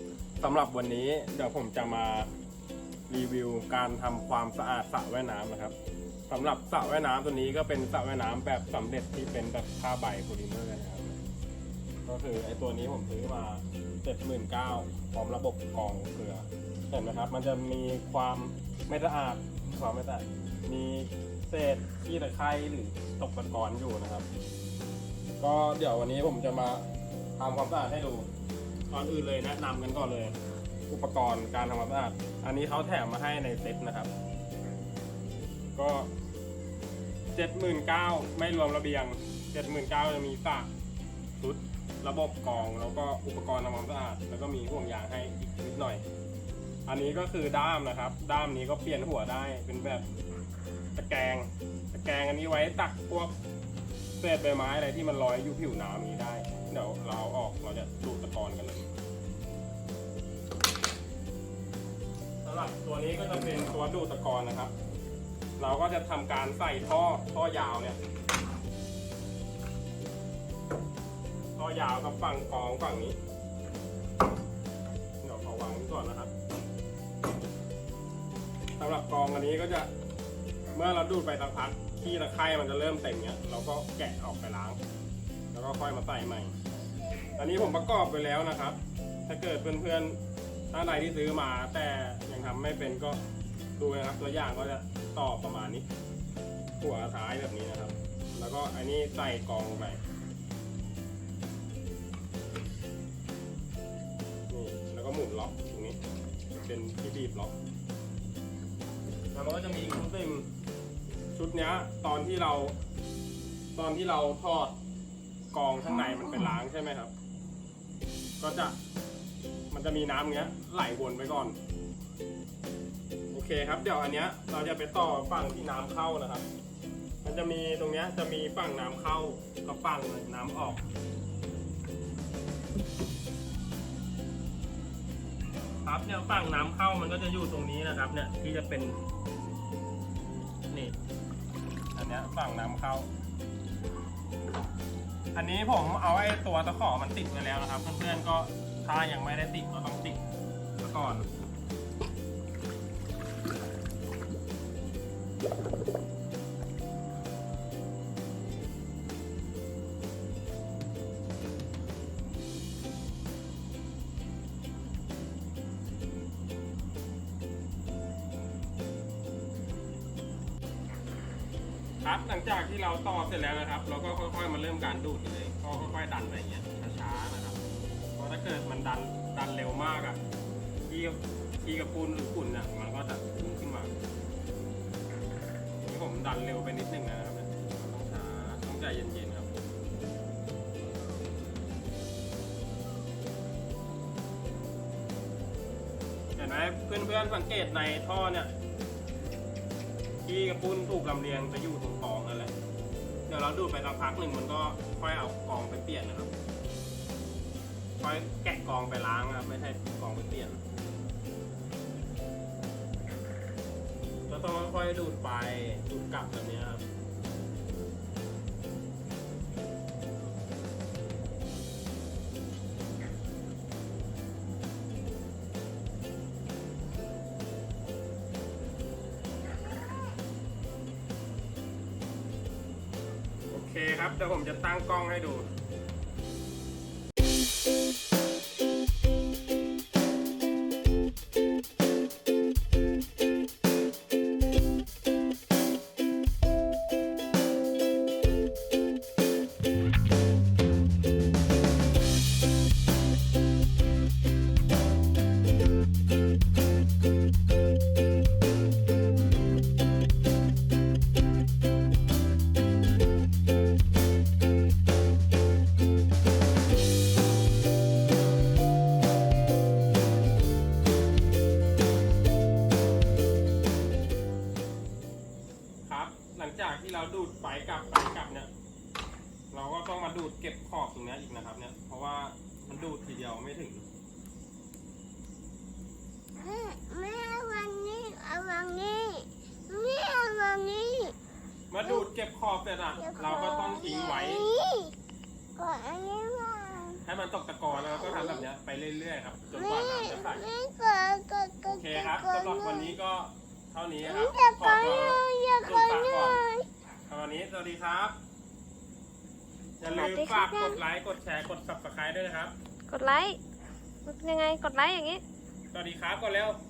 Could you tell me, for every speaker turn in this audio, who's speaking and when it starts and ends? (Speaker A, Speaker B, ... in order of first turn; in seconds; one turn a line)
Speaker A: 0.4-2.3
Speaker A: 3.1-5.8
Speaker A: 6.3-11.2
Speaker A: 12.1-24.3
Speaker A: 25.4-28.3
Speaker A: 28.9-30.4
Speaker A: 30.9-34.1
Speaker A: 35.8-36.1
Speaker A: 37.3-40.7
Speaker A: 41.4-46.0
Speaker A: 46.9-50.1
Speaker A: 51.0-53.4
Speaker A: 54.2-58.9
Speaker A: 62.4-64.7
Speaker A: 65.6-68.0
Speaker A: 71.6-73.2
Speaker A: 75.2-76.3
Speaker A: 78.8-79.9
Speaker A: 80.7-84.8
Speaker A: 85.5-86.6
Speaker A: 87.4-90.2
Speaker A: 90.7-93.2
Speaker A: 93.8-95.9
Speaker A: 96.8-100.0
Speaker A: 104.5-106.0
Speaker A: 106.5-107.5
Speaker A: 109.3-110.5
Speaker A: 111.3-112.8
Speaker A: 113.8-114.8
Speaker A: 115.5-117.1
Speaker A: 118.4-118.8
Speaker A: 119.7-121.6
Speaker A: 123.3-126.5
Speaker A: 127.2-130.8
Speaker A: 135.8-139.0
Speaker A: 140.7-141.0
Speaker A: 141.9-143.1
Speaker A: 145.3-150.2
Speaker A: 150.8-151.3
Speaker A: 172.0-177.6
Speaker A: 178.2-180.2
Speaker A: 180.9-183.9
Speaker A: 185.8-189.5
Speaker A: 196.4-198.5
Speaker A: 200.2-202.5
Speaker A: 203.3-206.3
Speaker A: 208.0-210.6
Speaker A: 214.3-216.8
Speaker A: 233.5-235.5
Speaker A: 275.9-278.5
Speaker A: 279.5-283.9
Speaker B: 286.4-291.2
Speaker A: 291.7-294.5
Speaker B: 293.0-294.9
Speaker B: 295.6-297.0
Speaker A: 297.0-300.5
Speaker B: 297.8-298.4
Speaker B: 299.5-303.0
Speaker A: 301.7-306.4
Speaker B: 304.0-306.7
Speaker A: 307.1-308.2
Speaker A: 309.8-312.5
Speaker C: 309.9-310.5
Speaker B: 310.4-310.8
Speaker C: 312.9-313.4
Speaker C: 314.1-315.2
Speaker A: 315.7-316.6